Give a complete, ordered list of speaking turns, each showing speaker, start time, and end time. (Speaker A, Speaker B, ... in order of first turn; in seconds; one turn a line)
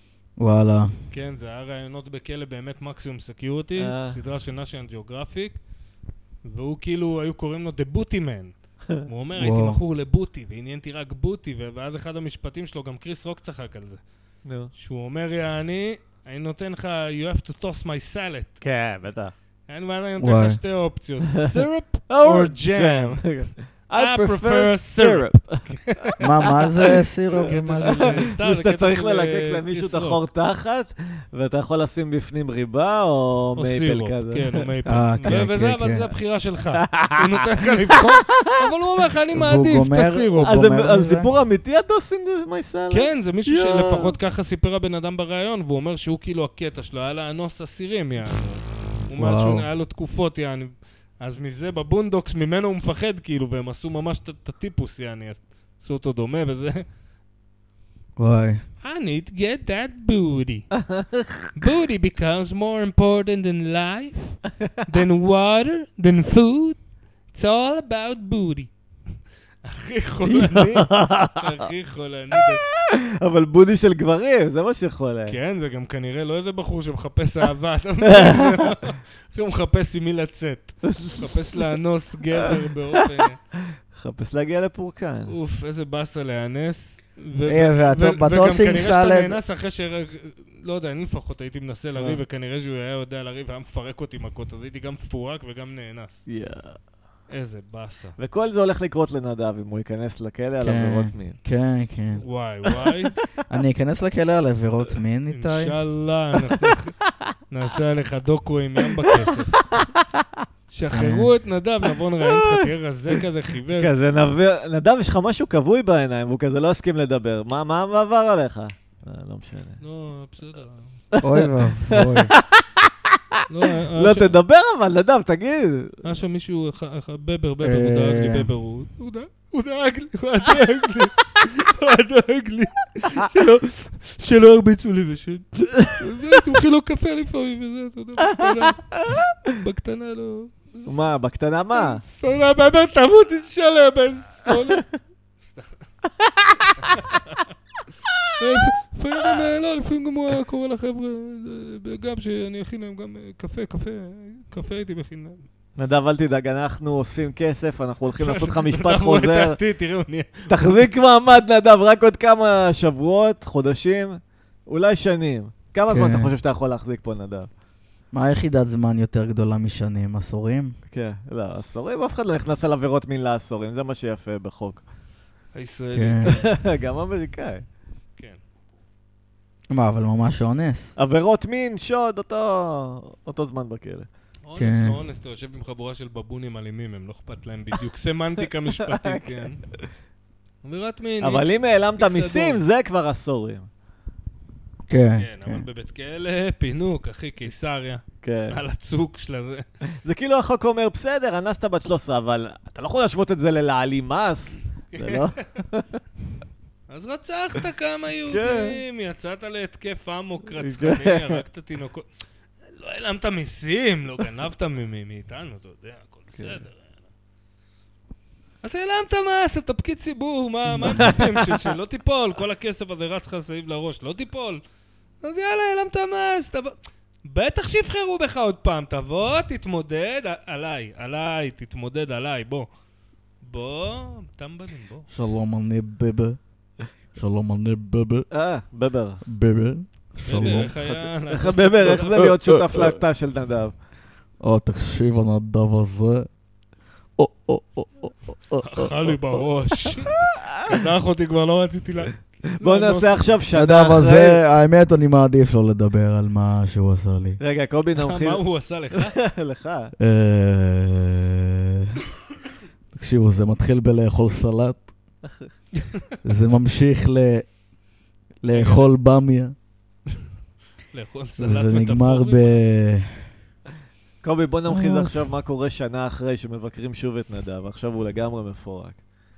Speaker A: 0.4-0.9
Speaker B: 1.1-5.6
Speaker C: 3.8-4.2
Speaker B: 6.5-8.5
Speaker B: 9.0-14.0
Speaker A: 9.4-9.8
Speaker C: 14.4-14.7
Speaker B: 14.8-18.6
Speaker C: 18.6-19.3
Speaker B: 19.7-23.4
Speaker A: 20.2-20.6
Speaker C: 22.1-25.7
Speaker B: 23.9-26.2
Speaker A: 26.2-28.2
Speaker C: 26.8-34.6
Speaker B: 27.4-30.3
Speaker B: 33.6-40.6
Speaker A: 34.9-36.1
Speaker C: 36.8-38.5
Speaker A: 39.3-41.3
Speaker C: 40.4-44.1
Speaker B: 42.9-56.9
Speaker A: 49.2-49.7
Speaker A: 58.2-58.6
Speaker B: 58.8-60.7
Speaker C: 60.8-61.5
Speaker B: 61.6-66.8
Speaker B: 67.3-68.7
Speaker B: 69.7-72.6
Speaker C: 70.2-71.6
Speaker C: 72.4-75.4
Speaker B: 75.3-83.4
Speaker C: 78.1-78.8
Speaker C: 80.9-81.2
Speaker C: 83.9-85.3
Speaker B: 85.3-96.3
Speaker A: 87.5-89.4
Speaker C: 92.0-92.2
Speaker C: 96.3-96.8
Speaker B: 97.3-98.2
Speaker C: 98.2-101.4
Speaker A: 100.6-102.2
Speaker B: 102.2-103.1
Speaker A: 103.5-105.7
Speaker B: 105.3-107.0
Speaker B: 107.5-109.6
Speaker C: 109.3-110.1
Speaker B: 110.7-113.9
Speaker A: 110.9-111.3
Speaker C: 113.8-119.8
Speaker B: 119.8-121.0
Speaker C: 121.1-123.4
Speaker A: 121.2-122.3
Speaker B: 123.5-124.4
Speaker C: 124.0-126.0
Speaker B: 126.0-138.9
Speaker A: 127.6-128.5
Speaker B: 139.5-140.5
Speaker C: 140.9-142.0
Speaker B: 141.7-144.9
Speaker B: 145.4-145.7
Speaker C: 146.4-146.9
Speaker B: 146.8-147.4
Speaker B: 148.4-155.4
Speaker C: 155.8-159.6
Speaker B: 158.2-160.8
Speaker C: 160.5-167.5
Speaker A: 165.9-166.3
Speaker A: 168.1-170.8
Speaker C: 170.9-174.8
Speaker B: 175.6-176.5
Speaker A: 175.9-176.4
Speaker C: 176.2-177.7
Speaker A: 179.7-180.9
Speaker C: 181.0-184.1
Speaker B: 184.5-189.6
Speaker A: 184.6-185.0
Speaker C: 188.8-189.3
Speaker B: 190.6-192.6
Speaker C: 191.2-193.7
Speaker A: 194.9-195.7
Speaker B: 195.2-199.7
Speaker C: 198.2-198.6
Speaker C: 200.0-205.9
Speaker B: 204.9-205.3
Speaker B: 206.9-212.1
Speaker C: 208.3-208.8
Speaker C: 210.6-211.4
Speaker B: 212.7-216.9
Speaker C: 216.4-216.6
Speaker B: 218.6-224.6
Speaker A: 220.7-221.2
Speaker C: 221.0-221.3
Speaker B: 225.2-232.7
Speaker B: 233.4-235.1
Speaker A: 235.1-236.4
Speaker A: 237.2-238.3
Speaker C: 238.3-239.2
Speaker A: 239.2-240.7
Speaker B: 240.2-242.3
Speaker C: 240.3-243.8
Speaker A: 242.5-242.9
Speaker A: 244.4-246.3
Speaker A: 247.2-249.1
Speaker B: 248.6-253.4
Speaker C: 252.6-254.4
Speaker A: 253.5-257.4
Speaker C: 257.4-258.4
Speaker B: 258.0-259.2
Speaker C: 259.0-259.9
Speaker A: 260.0-262.0
Speaker A: 262.9-264.9
Speaker A: 266.2-267.5
Speaker A: 268.4-269.5
Speaker B: 268.5-268.9
Speaker B: 270.9-272.6
Speaker A: 271.4-273.3
Speaker C: 274.2-279.0
Speaker A: 274.7-275.2